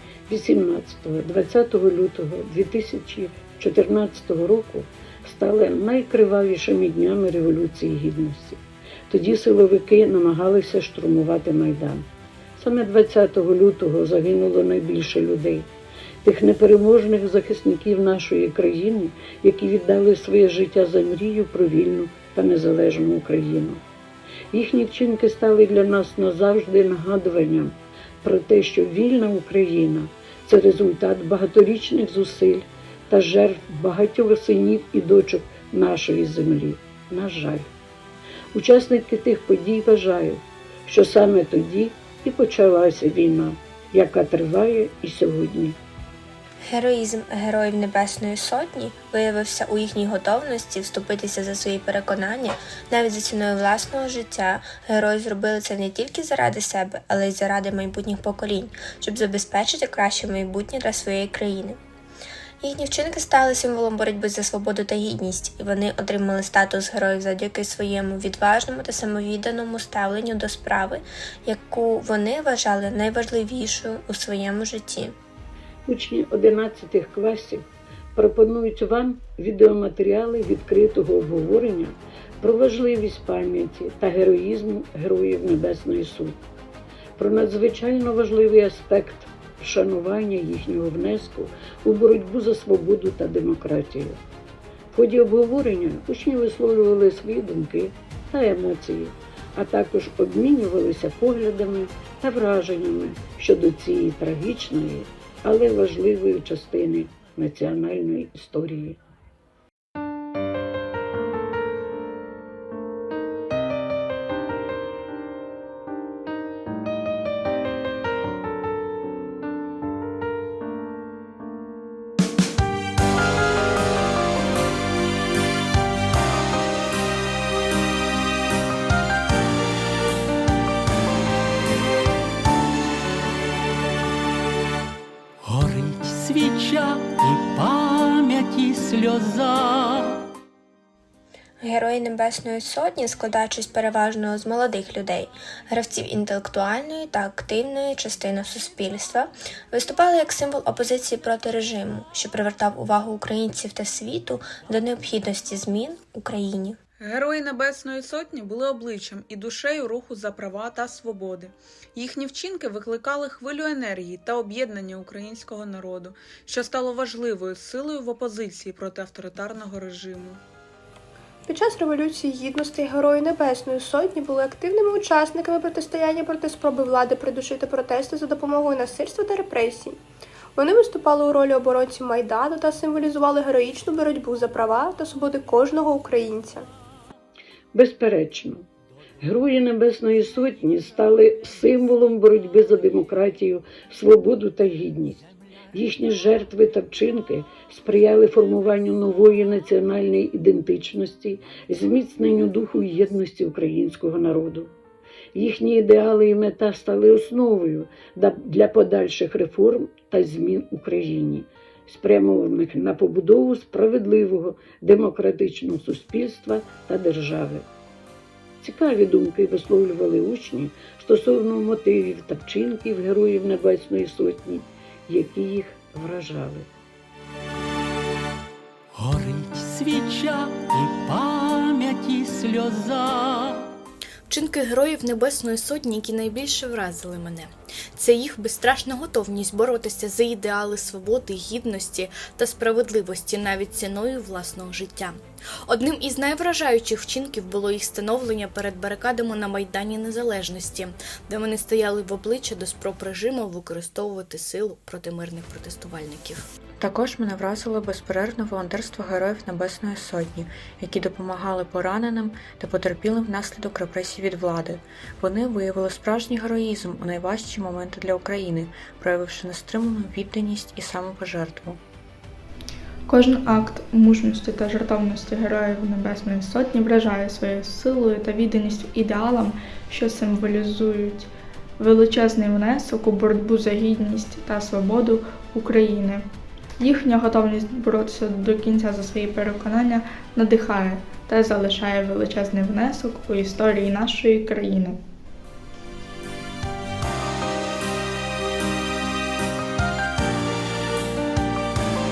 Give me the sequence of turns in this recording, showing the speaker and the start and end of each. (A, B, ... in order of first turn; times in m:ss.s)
0:00.3-0:15.7 A
0:16.2-0:23.8 A
0:24.5-0:37.7 A
0:38.5-0:45.8 A
0:46.7-1:01.8 B
1:02.6-1:15.1 B
1:15.9-1:26.4 A
1:27.2-1:34.2 A
1:34.9-1:49.0 A
2:15.4-2:20.2 C
2:21.6-2:36.8 B
2:37.0-2:50.4 D
2:51.5-3:00.0 E
3:00.6-3:06.7 E
3:07.7-3:08.7 A
3:09.2-3:24.7 A
3:25.3-3:37.7 A
3:38.6-3:46.7 A
3:49.0-3:53.7 C
3:54.3-4:16.5 F
4:16.8-4:31.8 G
4:33.1-4:46.2 H
4:46.8-4:55.0 H